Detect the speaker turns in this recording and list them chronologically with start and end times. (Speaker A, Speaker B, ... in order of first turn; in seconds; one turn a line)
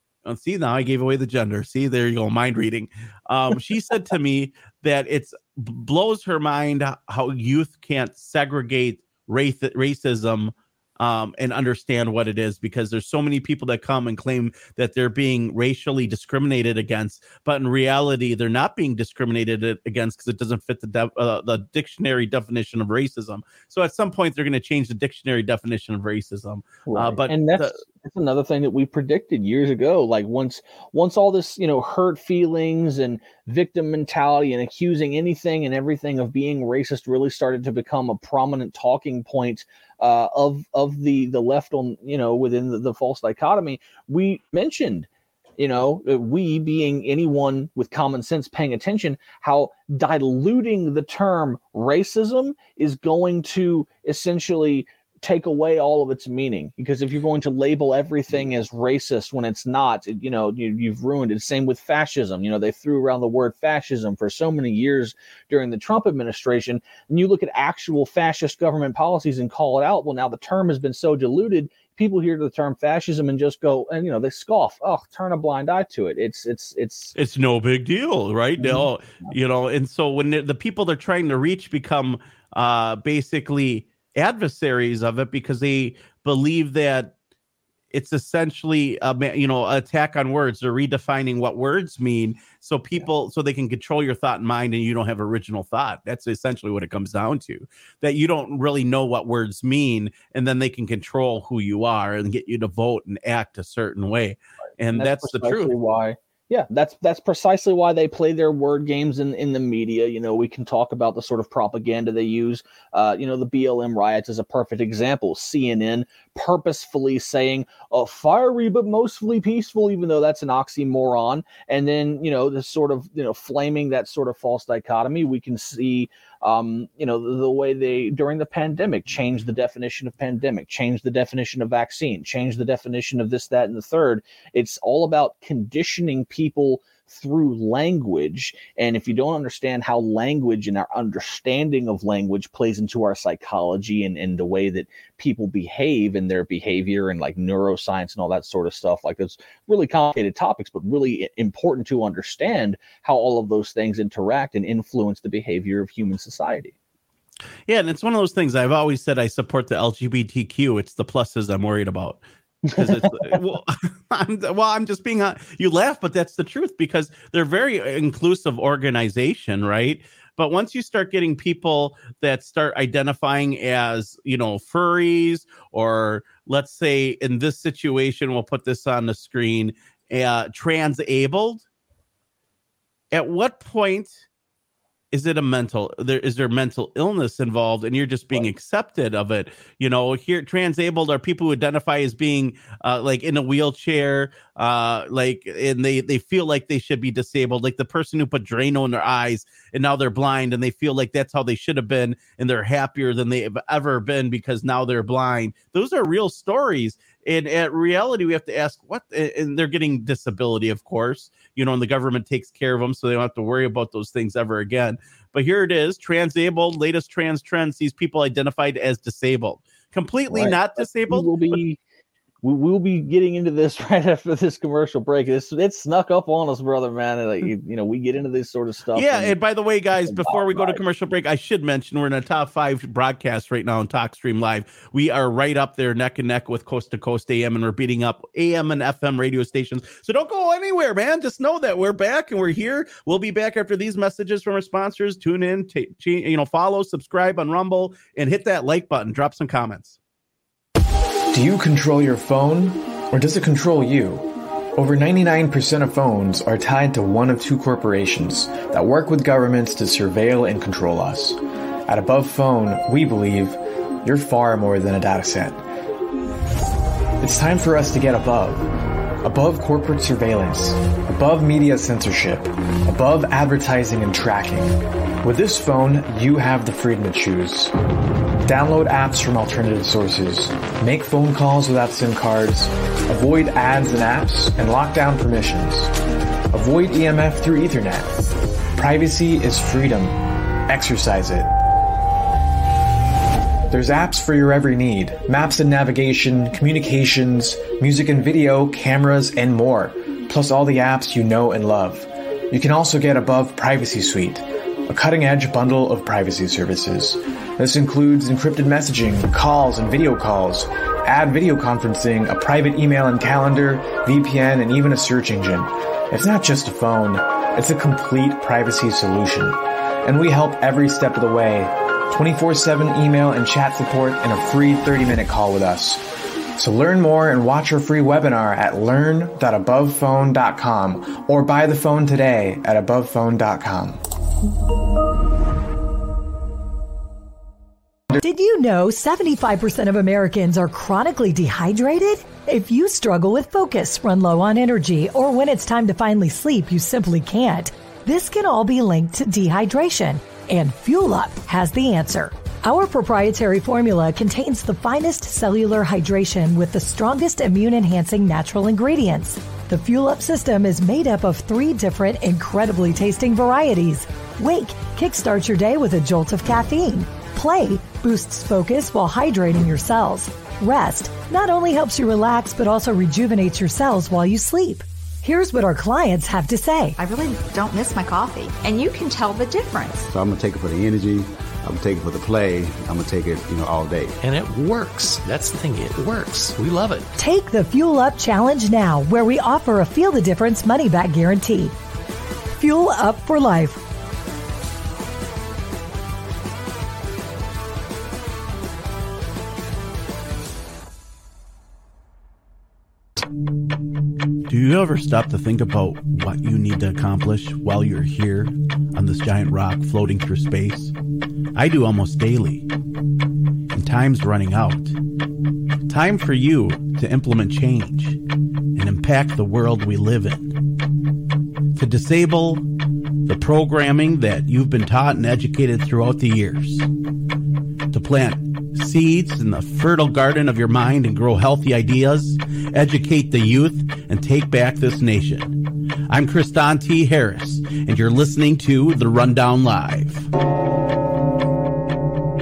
Speaker A: 0.2-27.8
Speaker B: 26.9-77.1
Speaker A: 77.1-87.1
Speaker B: 78.6-79.3
Speaker A: 87.9-105.7
Speaker B: 104.9-156.7
Speaker A: 157.7-181.6
Speaker B: 162.7-163.3
Speaker A: 183.1-184.2
Speaker A: 185.1-221.6
Speaker B: 220.3-221.8
Speaker B: 222.4-229.4
Speaker A: 228.9-250.0
Speaker B: 230.0-230.8
Speaker C: 251.3-265.6
Speaker C: 267.2-268.6
Speaker C: 269.2-277.7
Speaker C: 278.4-285.9
Speaker C: 286.5-288.1
Speaker C: 288.7-291.5
Speaker C: 293.7-326.0
Speaker C: 326.6-334.0
Speaker D: 338.2-376.9
Speaker E: 377.0-380.1
Speaker F: 380.1-384.2
Speaker G: 384.2-387.1
Speaker D: 387.2-391.8
Speaker D: 392.6-393.8
Speaker A: 404.4-410.9
Speaker A: 411.5-412.6
Speaker A: 413.7-414.9
Speaker A: 415.9-418.2
Speaker A: 418.7-420.6
Speaker A: 421.7-422.7
Speaker A: 423.2-426.9
Speaker A: 427.9-435.6
Speaker A: 436.1-440.3